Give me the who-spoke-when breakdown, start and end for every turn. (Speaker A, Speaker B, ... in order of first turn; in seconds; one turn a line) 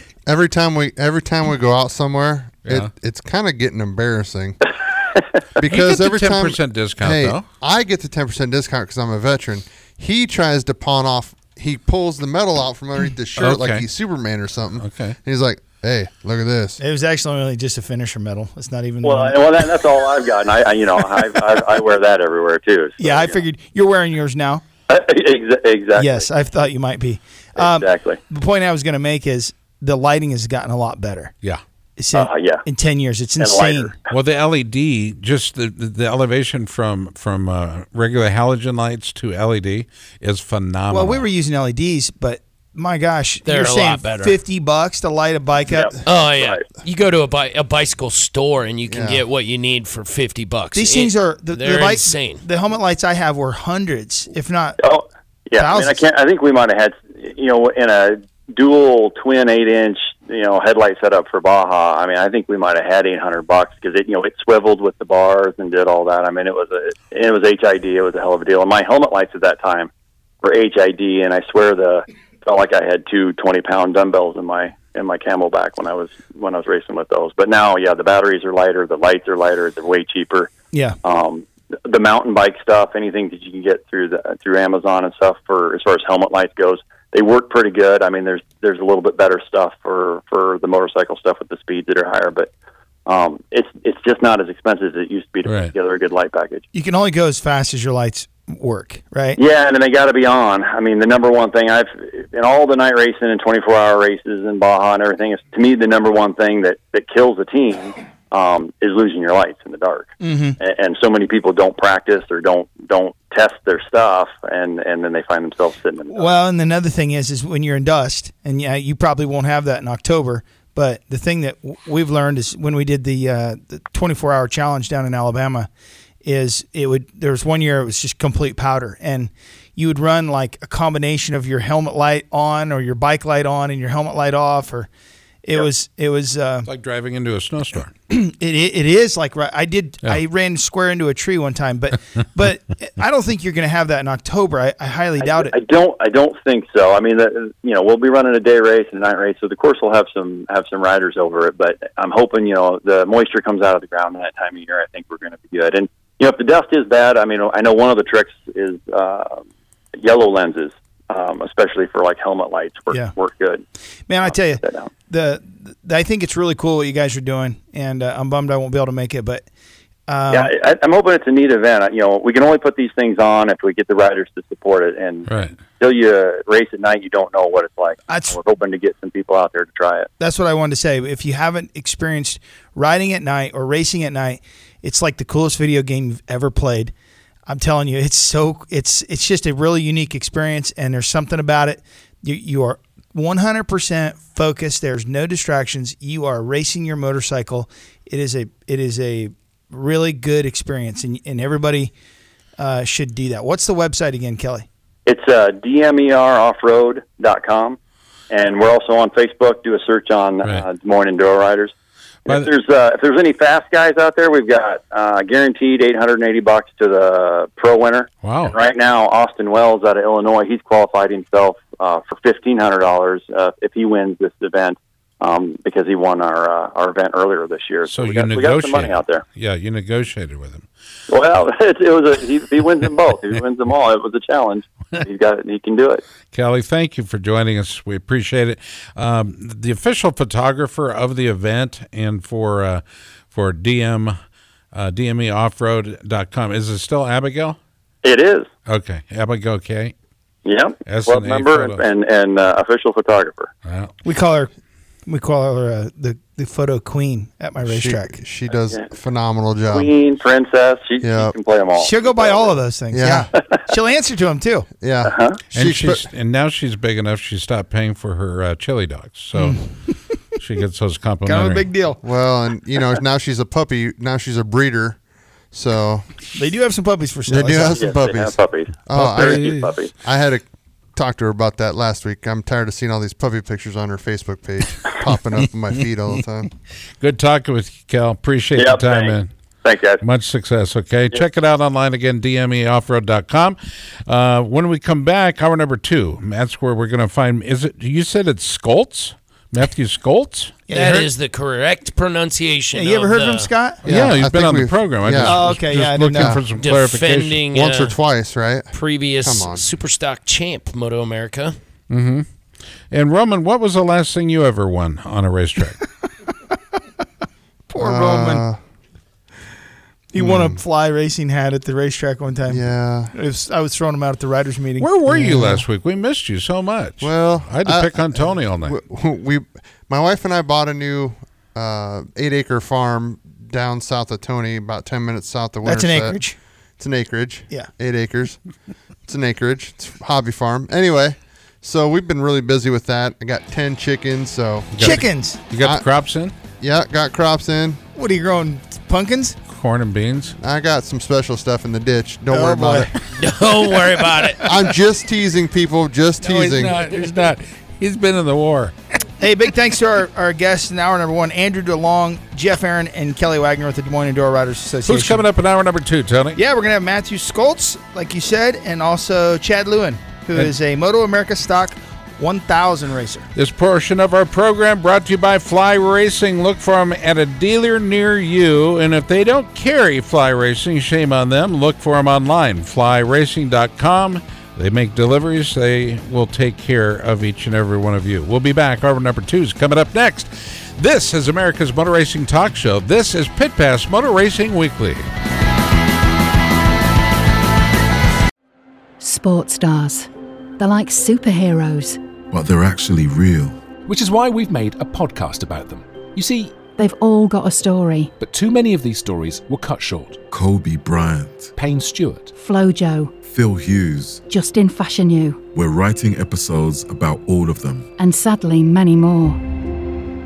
Speaker A: 0.3-4.7
Speaker A: 5.6-16.8
Speaker B: 5.7-7.4
Speaker B: 13.4-13.9
Speaker B: 14.8-15.2
Speaker C: 16.8-19.5
Speaker D: 19.0-23.4
Speaker C: 23.0-24.6
Speaker D: 24.9-26.3
Speaker C: 26.0-31.3
Speaker D: 27.6-28.2
Speaker C: 32.0-33.9
Speaker D: 32.1-32.6
Speaker D: 33.4-34.0
Speaker B: 34.1-41.2
Speaker C: 40.9-45.9
Speaker E: 43.5-44.4
Speaker D: 45.7-46.6
Speaker E: 46.0-52.4
Speaker A: 48.9-49.2
Speaker C: 50.7-54.8
Speaker D: 54.8-69.9
Speaker C: 55.6-56.0
Speaker D: 70.4-80.5
Speaker C: 80.7-81.0
Speaker D: 81.0-92.5
Speaker D: 93.1-96.6
Speaker B: 95.5-95.7
Speaker C: 96.8-99.4
Speaker D: 99.4-116.3
Speaker C: 110.2-110.6
Speaker C: 116.1-125.7
Speaker C: 126.2-134.9
Speaker C: 135.4-136.7
Speaker B: 136.7-137.9
Speaker C: 138.1-145.5
Speaker D: 145.2-159.4
Speaker D: 160.0-163.7
Speaker C: 164.1-169.5
Speaker D: 164.2-164.9
Speaker C: 170.1-170.5
Speaker D: 170.3-180.1
Speaker B: 175.3-175.6
Speaker C: 178.1-178.3
Speaker C: 180.2-186.9
Speaker C: 187.5-201.9
Speaker C: 202.6-204.7
Speaker D: 205.1-207.8
Speaker D: 208.3-211.7
Speaker D: 212.3-229.2
Speaker B: 218.2-218.5
Speaker B: 227.9-230.7
Speaker D: 231.1-236.0
Speaker B: 236.3-244.1
Speaker B: 244.7-247.6
Speaker D: 248.0-248.5
Speaker B: 248.7-249.9
Speaker D: 250.4-253.5
Speaker B: 250.8-251.8
Speaker B: 253.7-253.9
Speaker C: 254.0-254.5
Speaker C: 255.1-258.2
Speaker A: 257.6-259.9
Speaker D: 258.5-258.9
Speaker D: 259.7-262.6
Speaker A: 261.0-261.4
Speaker C: 261.8-264.7
Speaker A: 262.9-263.3
Speaker A: 264.8-266.1
Speaker D: 265.1-265.4
Speaker B: 265.5-269.7
Speaker C: 269.4-270.2
Speaker B: 270.4-271.7
Speaker C: 271.2-272.0
Speaker A: 272.0-275.0
Speaker A: 275.5-276.2
Speaker C: 276.4-277.8
Speaker A: 277.3-280.4
Speaker D: 277.7-279.9
Speaker B: 278.9-279.6
Speaker A: 281.0-286.5
Speaker B: 287.0-289.3
Speaker D: 288.6-290.0
Speaker B: 290.0-293.6
Speaker B: 294.1-300.6
Speaker C: 300.7-301.1
Speaker E: 300.7-303.5
Speaker C: 302.7-303.9
Speaker B: 303.8-307.4
Speaker A: 303.9-305.4
Speaker C: 305.2-306.4
Speaker A: 306.1-306.5
Speaker E: 306.6-308.1
Speaker A: 307.4-309.7
Speaker E: 308.7-311.6
Speaker B: 311.9-312.3
Speaker B: 312.9-315.8
Speaker C: 317.7-318.4
Speaker A: 317.8-318.6
Speaker C: 320.1-325.6
Speaker A: 320.2-320.6
Speaker A: 322.5-323.1
Speaker B: 324.8-328.8
Speaker A: 327.0-336.2
Speaker C: 335.6-336.4
Speaker A: 336.8-338.4
Speaker A: 339.1-345.0
Speaker B: 344.7-346.3
Speaker C: 344.8-345.4
Speaker A: 345.6-345.9
Speaker A: 346.6-347.8
Speaker C: 348.0-349.4
Speaker B: 349.5-350.4
Speaker A: 350.4-352.9
Speaker C: 352.3-353.0
Speaker E: 353.1-354.5
Speaker A: 354.4-356.8
Speaker B: 356.2-358.7
Speaker C: 359.2-365.2
Speaker B: 364.9-366.4
Speaker C: 366.3-373.3
Speaker B: 373.4-395.0
Speaker F: 399.0-402.0
Speaker G: 402.3-403.6
Speaker H: 403.9-406.7
Speaker F: 406.8-408.1
Speaker H: 408.2-410.2
Speaker G: 410.3-411.6
Speaker H: 411.6-412.3
Speaker F: 412.3-413.1
Speaker G: 413.3-414.2
Speaker F: 414.3-415.4
Speaker G: 415.6-417.9
Speaker F: 418.0-419.4